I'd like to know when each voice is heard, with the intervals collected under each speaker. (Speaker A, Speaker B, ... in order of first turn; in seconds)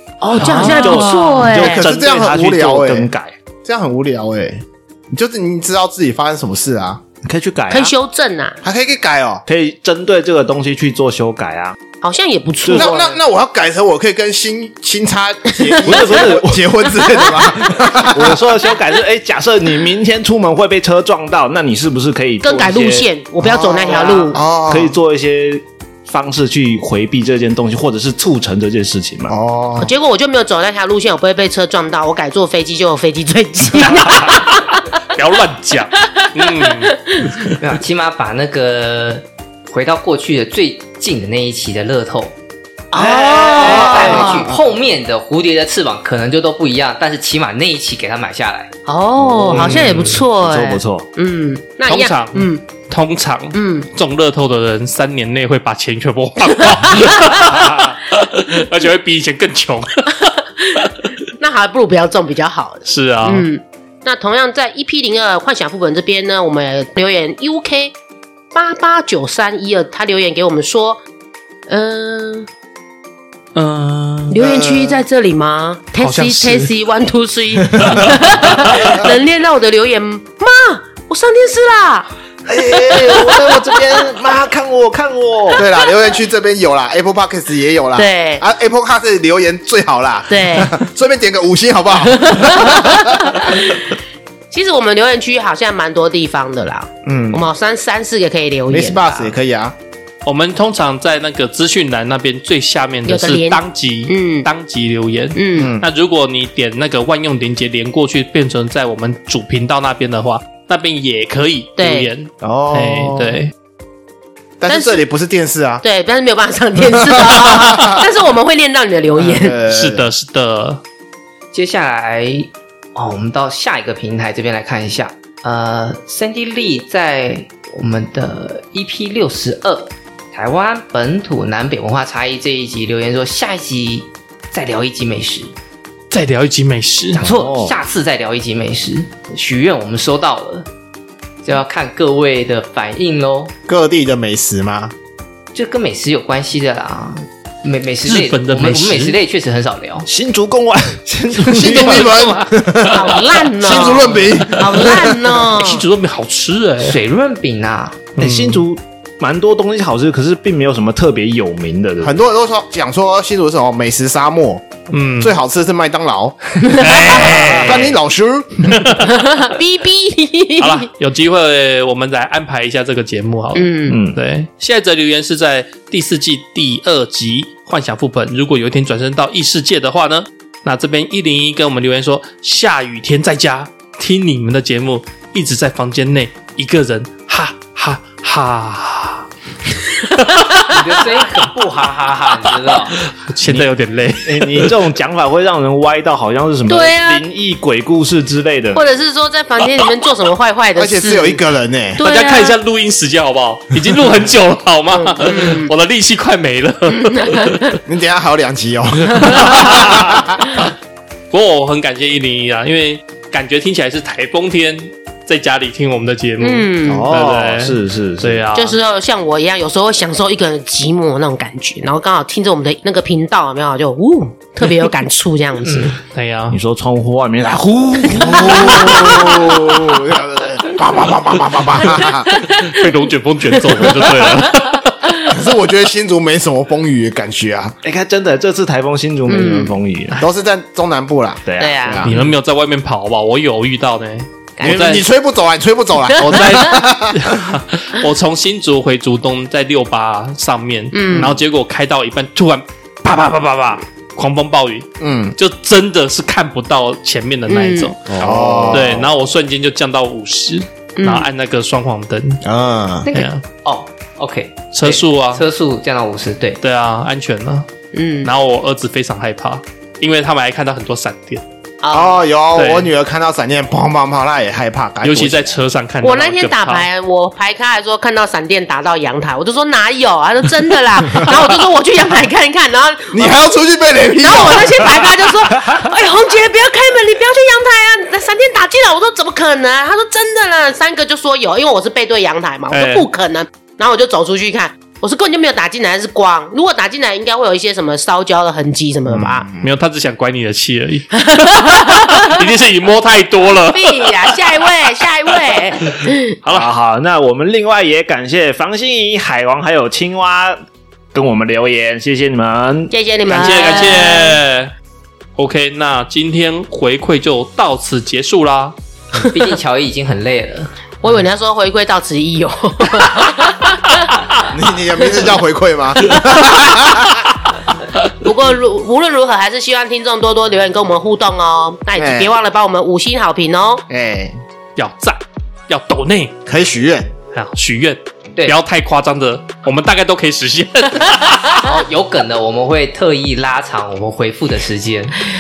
Speaker A: 0.2-1.8, 7.7-8.6, 12.0-13.2, 15.6-16.0, 17.0-17.4, 22.4-24.4, 29.8-34.8, 36.5-37.4, 43.0-44.5, 48.9-52.6, 53.5-53.9, 56.6-57.7, 60.6-67.9, 68.5-71.0, 71.7-72.5, 74.3-82.1, 88.0-88.4, 90.3-90.8, 92.1-93.8, 94.5-99.3, 103.1-104.5, 105.3-105.8, 111.8-112.1, 114.7-115.0, 115.8-119.6, 152.9-155.8, 166.6-167.5, 169.0-170.9, 173.6-174.0, 196.7-197.2, 198.7-201.4, 202.0-202.6, 204.9-205.7, 206.9-207.6, 209.2-209.5, 216.4-217.1, 218.6-226.0, 228.2-229.6, 232.0-232.6, 233.7-234.5, 239.3-239.8, 241.6-242.1, 244.6-244.9, 246.1-246.8, 250.9-251.4, 257.5-257.9, 261.0-261.3, 267.9-268.3, 271.8-272.2, 276.0-283.4, 284.2-299.5, 301.3-302.4, 303.7-306.3, 312.9-314.4, 321.0-324.2, 326.1-326.5, 328.2-333.8
Speaker B: 0.4-3.4, 7.2-7.9, 9.5-11.8, 12.6-12.9, 15.8-16.7, 18.1-23.1, 23.9-29.4, 43.0-44.4, 49.2-51.1, 82.5-85.6, 137.2-137.7, 150.1-152.2, 158.2-162.2, 173.9-174.2, 194.2-198.8, 216.8-218.4, 226.5-229.7, 237.8-240.2, 241.5-241.8, 258.1-258.9, 306.4-310.6, 311.1-313.9
Speaker C: 0.4-1.4, 35.1-37.5, 49.5-50.1, 51.9-60.3, 62.9-63.5, 73.5-74.4, 76.0-76.7, 100.2-113.5, 119.7-120.8, 136.1-137.2, 148.1-149.2, 151.3-153.1, 155.5-157.0, 158.2-158.6, 164.9-165.3, 166.7-168.0, 168.7-169.1, 170.6-189.2, 190.2-190.6, 192.9-194.8, 202.0-207.8, 209.4-210.7, 211.3-218.8, 226.0-226.6, 232.4-235.1, 242.0-245.1, 246.2-258.1, 258.7-262.4, 263.1-263.4, 264.7-265.4, 266.6-267.7, 268.2-271.4, 272.6-272.9, 275.0-276.9, 292.7-293.1, 299.6-304.6, 313.3-314.7, 315.4-318.8, 334.8-336.3, 337.3-341.6
Speaker D: 1.6-3.1, 3.6-7.0, 8.6-9.4, 12.7-18.4, 23.4-25.0, 29.3-29.9, 43.7-44.5, 74.4-75.0, 77.7-79.0, 82.6-83.3, 85.5-93.8, 97.0-97.5, 98.7-99.8, 105.6-105.9, 112.4-113.4, 114.6-115.8, 116.8-118.0, 119.2-120.1, 143.7-144.9, 151.5-155.4, 162.0-169.0, 200.8-202.0, 207.9-210.4, 228.3-232.3, 235.3-237.8, 240.2-242.1, 244.6-247.6, 255.0-255.4, 258.1-259.1, 262.4-263.1, 271.9-275.6, 283.1-285.2, 299.1-299.7, 324.5-327.3, 332.0-332.3, 333.9-334.4, 336.5-337.1
Speaker E: 37.6-42.4, 43.0-48.7, 49.6-50.1, 121.5-135.5, 137.1-140.7, 141.4-143.5, 145.5-150.1, 156.8-158.0, 190.7-193.0, 263.0-266.6, 319.1-320.7, 341.6-345.2